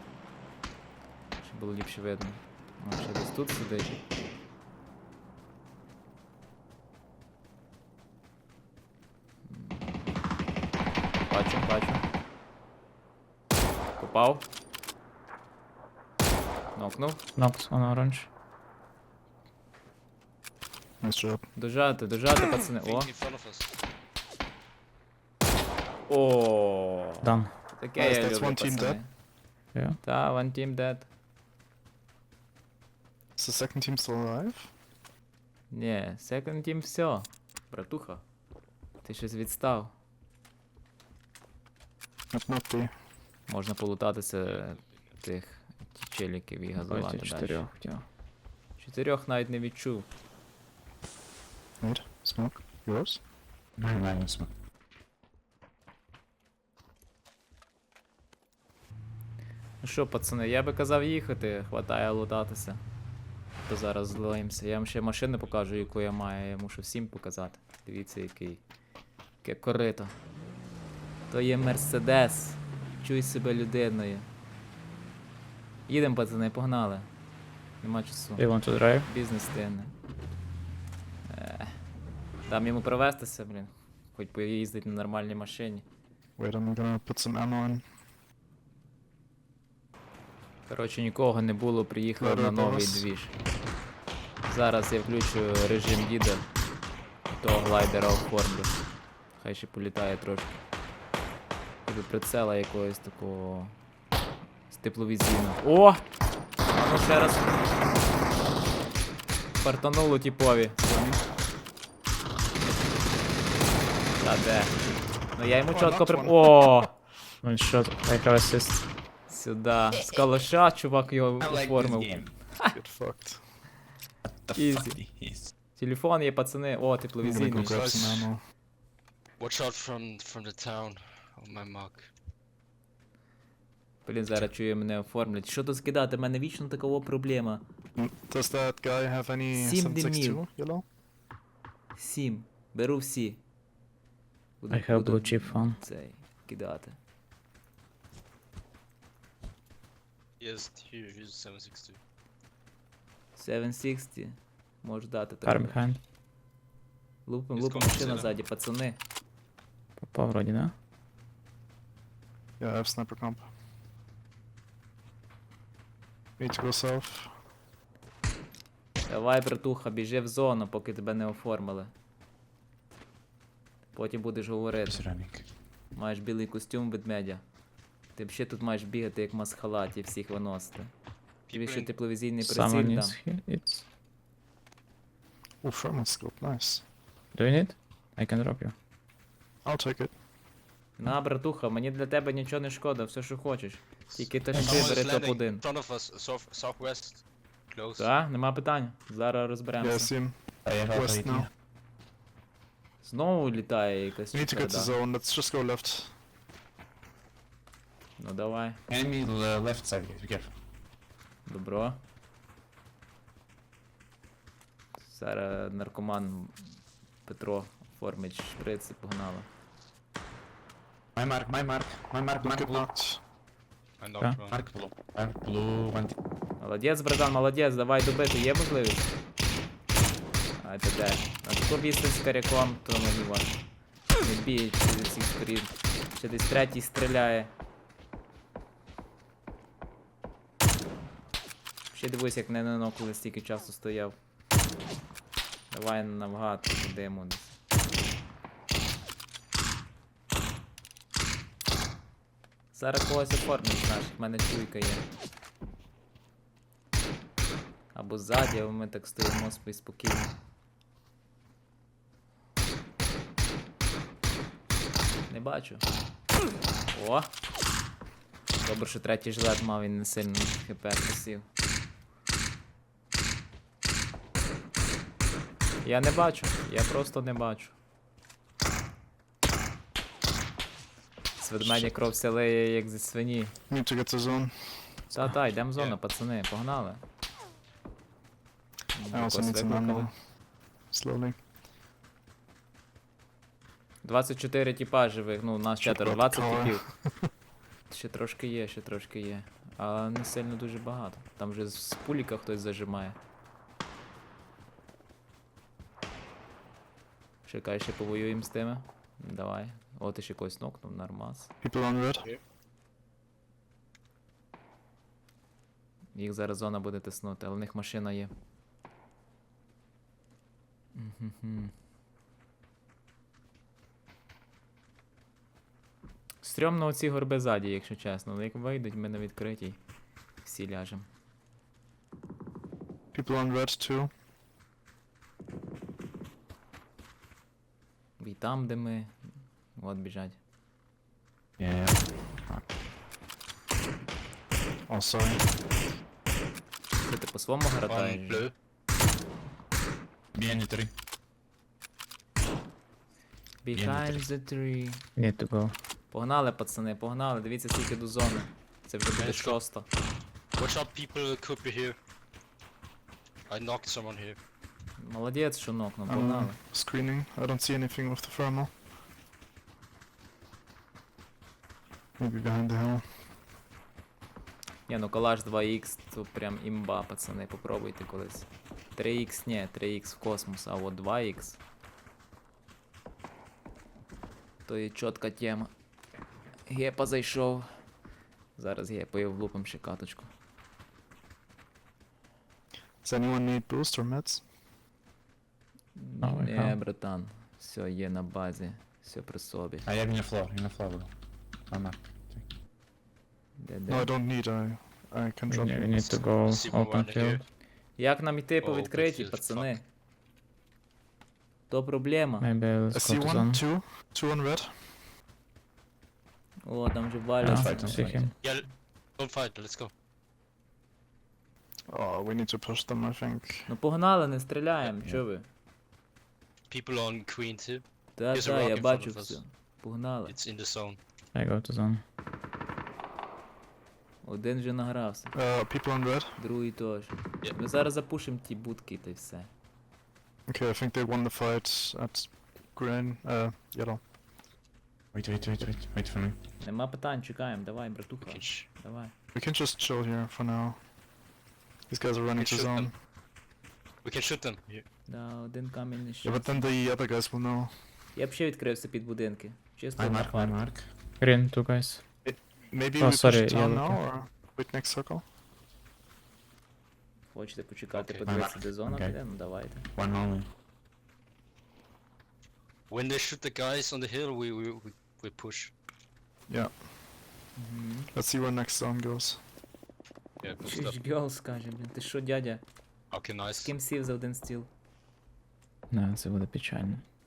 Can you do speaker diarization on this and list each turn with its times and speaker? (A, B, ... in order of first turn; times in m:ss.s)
0:01.4-0:04.0 A
0:09.5-0:09.9 A
0:11.3-0:12.0 A
0:14.0-0:14.5 A
0:16.8-0:17.2 A
0:17.4-0:18.3 B
0:21.0-0:21.4 C
0:21.6-0:23.1 A
0:22.8-0:23.7 D
0:26.1-0:29.1 A
0:27.2-0:27.5 B
0:28.0-0:29.0 C
0:30.0-0:31.1 A
0:33.4-0:34.7 C
0:35.7-0:38.2 A
0:39.0-0:39.9 A
0:42.3-0:42.9 C
0:43.5-0:47.7 A
0:46.8-0:48.0 B
0:48.8-0:50.1 A
0:51.8-0:53.2 C
0:53.8-0:54.5 E
0:59.8-1:02.8 A
1:03.6-1:08.6 A
1:09.4-1:10.1 A
1:11.3-1:14.3 A
1:15.9-1:17.1 A
1:17.8-1:19.9 A
1:18.4-1:19.1 B
1:21.2-1:21.8 A
1:22.5-1:25.8 A
1:26.4-1:27.8 C
1:30.7-1:33.3 A
1:32.2-1:33.1 C
1:34.5-1:36.4 A
1:37.4-1:38.8 A
1:39.4-1:40.6 A
1:41.8-1:43.8 A
1:44.7-1:46.0 A
1:46.7-1:47.6 A
1:49.6-1:51.2 A
1:54.2-1:54.8 A
1:55.3-1:56.9 A
1:55.7-1:56.9 C
1:57.4-1:58.9 B
1:59.3-2:02.8 A
2:01.4-2:02.3 E
2:02.7-2:03.4 C
2:04.2-2:05.5 E
2:04.5-2:05.0 A
2:05.7-2:08.0 A
2:07.2-2:08.4 C
2:07.4-2:08.3 D
2:09.4-2:12.1 D
2:14.0-2:17.6 A
2:18.0-2:20.8 C
2:19.6-2:20.4 A
2:22.0-2:23.4 A
2:24.6-2:27.0 A
2:24.7-2:25.8 B
2:30.4-2:32.0 D
2:33.4-2:35.8 A
2:35.4-2:36.0 B
2:37.2-2:39.0 A
2:37.6-2:38.3 D
2:40.0-2:40.7 B
2:42.6-2:43.5 C
2:46.4-2:47.3 C
2:49.1-2:51.9 A
2:53.9-2:55.1 A
2:54.9-2:55.4 E
2:55.9-2:57.4 A
2:58.1-3:00.9 A
3:01.5-3:01.9 D
3:01.5-3:03.2 A
3:02.4-3:03.8 B
3:05.6-3:06.8 C
3:07.3-3:08.7 B
3:09.6-3:10.1 C
3:11.0-3:15.6 A
3:14.6-3:14.9 E
3:14.6-3:18.1 D
3:18.0-3:20.1 A
3:19.8-3:21.5 C
3:20.6-3:21.5 E
3:23.0-3:24.9 A
3:24.3-3:26.2 C
3:28.2-3:28.8 A
3:28.9-3:30.5 E
3:31.5-3:32.0 A
3:35.0-3:36.7 A
3:37.2-3:39.5 A
3:41.2-3:42.9 E
3:42.4-3:43.2 C
3:44.0-3:44.6 D
3:44.4-3:46.1 E
3:46.6-3:49.1 A
3:50.6-3:53.6 A
3:54.2-3:57.5 A
4:01.9-4:04.1 A
4:05.7-4:07.6 A
4:12.7-4:15.0 A
4:17.9-4:20.3 A
4:25.3-4:25.8 A
4:26.9-4:27.3 A
4:28.6-4:31.5 A
4:35.8-4:37.8 A
4:41.4-4:43.5 A
4:43.7-4:45.0 C
4:45.1-4:47.0 A
4:48.9-4:50.1 A
4:49.1-4:50.1 C
4:50.9-4:51.4 C
4:54.0-4:56.9 A
4:55.8-4:57.3 C
4:57.9-5:03.2 A
5:07.4-5:11.5 A
5:11.6-5:12.3 C
5:16.1-5:18.3 A
5:21.0-5:21.7 A
5:26.4-5:29.8 A
5:30.4-5:31.0 A
5:33.1-5:34.1 C
5:38.2-5:39.2 A
5:39.8-5:40.4 A
5:41.6-5:42.6 E
5:44.9-5:45.5 C
5:47.0-5:48.5 A
5:47.9-5:48.5 D
5:50.3-5:50.9 E
5:53.6-5:55.0 A
5:53.7-5:54.3 E
5:55.2-5:55.8 B
5:56.1-5:59.9 A
5:59.1-5:59.6 D
6:00.6-6:02.0 D
6:03.5-6:04.4 D
6:05.0-6:06.6 A
6:06.0-6:08.7 C
6:12.2-6:13.1 C
6:14.9-6:21.6 A
6:24.6-6:25.7 A
6:26.7-6:27.7 A
6:28.6-6:30.3 A
6:33.0-6:34.4 C
6:36.0-6:39.9 A
6:36.2-6:36.8 B
6:39.8-6:41.1 E
6:41.7-6:42.5 E
6:43.6-6:44.1 A
6:43.9-6:46.2 C
6:45.5-6:47.4 B
6:46.4-6:47.4 D
6:48.0-6:49.8 A
6:48.6-6:49.8 D
6:51.7-6:52.5 A
6:52.4-6:53.6 B
6:52.9-6:55.0 C
6:56.6-6:58.3 A
6:57.4-6:58.3 B
6:57.5-6:58.3 E
6:58.4-6:59.9 D
7:01.9-7:03.7 C
7:03.7-7:05.5 A
7:06.7-7:09.4 D
7:08.2-7:10.4 A
7:10.3-7:11.0 D
7:11.4-7:12.0 B
7:14.2-7:15.4 A
7:15.3-7:16.4 C
7:16.4-7:19.5 A
7:20.5-7:24.0 C
7:25.1-7:26.4 E
7:26.6-7:29.1 A
7:28.2-7:28.7 D
7:29.3-7:30.8 C
7:31.9-7:32.9 C
7:32.4-7:32.9 D
7:34.0-7:34.8 D
7:35.1-7:36.6 A
7:36.2-7:37.8 C
7:38.1-7:40.6 A
7:40.0-7:40.9 E
7:41.2-7:42.0 B
7:42.2-7:45.2 C
7:43.0-7:44.0 B
7:47.3-7:49.9 A
7:47.9-7:48.3 D
7:48.2-7:50.5 E
7:52.9-7:55.7 D
7:56.5-7:56.8 C
7:57.6-7:58.1 A
7:58.1-7:59.4 C
8:00.4-8:01.0 D
8:00.6-8:02.6 A
8:03.1-8:03.7 D
8:03.6-8:04.7 A
8:05.9-8:07.0 B